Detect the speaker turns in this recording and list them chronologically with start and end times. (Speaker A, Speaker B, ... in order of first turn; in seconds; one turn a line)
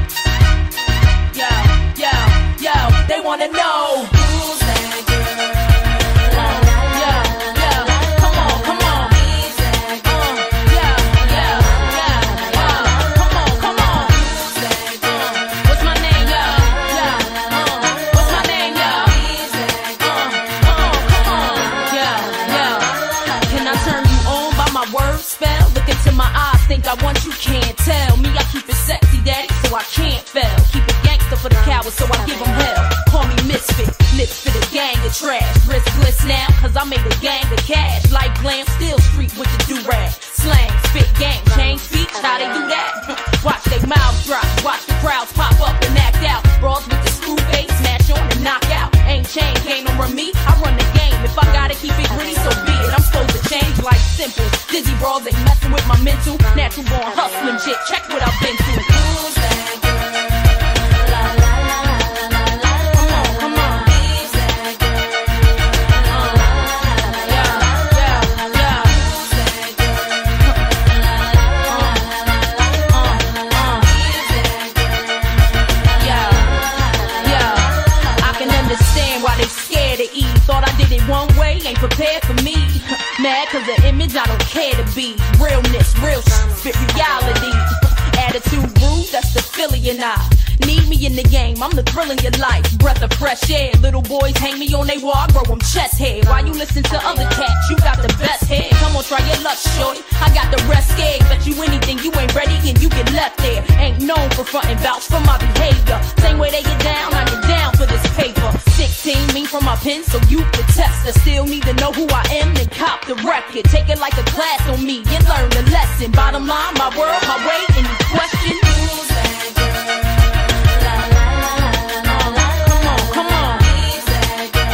Speaker A: 1.3-4.7
Speaker A: 6.2-59.5
Speaker A: 62.9-64.1
Speaker A: 66.0-69.2
Speaker A: 71.6-72.1
Speaker A: 72.9-74.0
Speaker A: 75.9-76.6
Speaker A: 77.2-119.2
Speaker A: 122.0-123.9